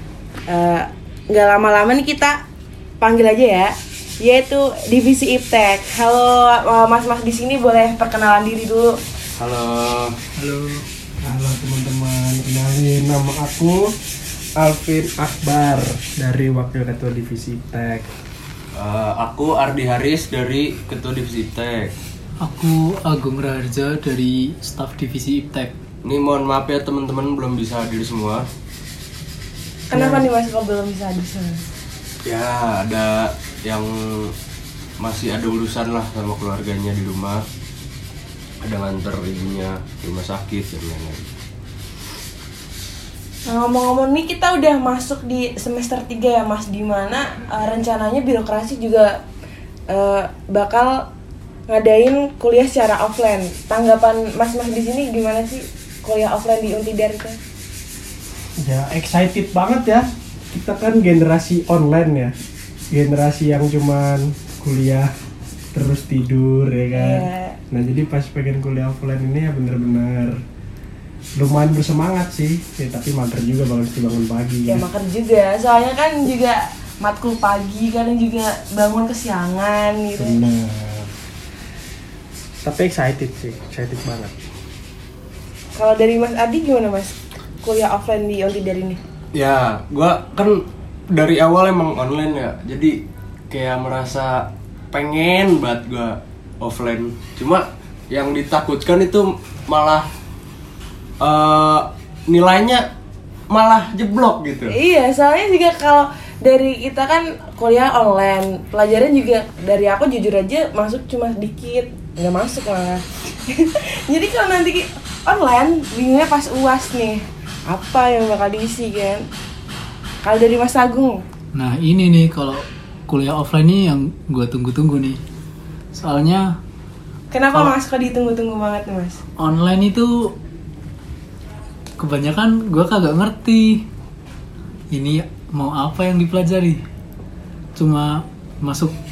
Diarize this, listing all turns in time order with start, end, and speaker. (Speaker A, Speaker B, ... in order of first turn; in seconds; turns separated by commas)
Speaker A: 0.5-2.4, Speaker A: 3.0-9.0, Speaker B: 9.4-10.2, Speaker C: 10.4-10.8, Speaker D: 11.2-13.9, Speaker D: 14.6-18.1, Speaker B: 18.8-21.9, Speaker C: 22.4-25.7, Speaker B: 26.0-28.4, Speaker A: 29.9-31.6, Speaker D: 29.9-30.2, Speaker B: 32.2-34.3, Speaker B: 35.0-37.4, Speaker B: 38.6-41.3, Speaker A: 43.5-49.2, Speaker A: 49.9-51.0, Speaker A: 51.7-57.4, Speaker D: 58.6-62.3, Speaker D: 62.9-65.1, Speaker D: 65.7-70.4, Speaker A: 66.9-67.6, Speaker D: 71.4-74.8, Speaker A: 74.7-80.4, Speaker D: 80.2-81.1, Speaker D: 82.6-84.4, Speaker A: 85.8-89.0, Speaker B: 89.3-93.0, Speaker B: 93.5-100.1, Speaker B: 101.2-102.8, Speaker B: 103.5-104.7, Speaker A: 104.7-119.2, Speaker A: 120.2-121.2, Speaker C: 121.5-125.2, Speaker C: 125.9-126.6, Speaker A: 127.3-129.2, Speaker C: 129.4-130.3, Speaker C: 132.0-133.8, Speaker C: 134.9-136.8, Speaker C: 137.8-138.9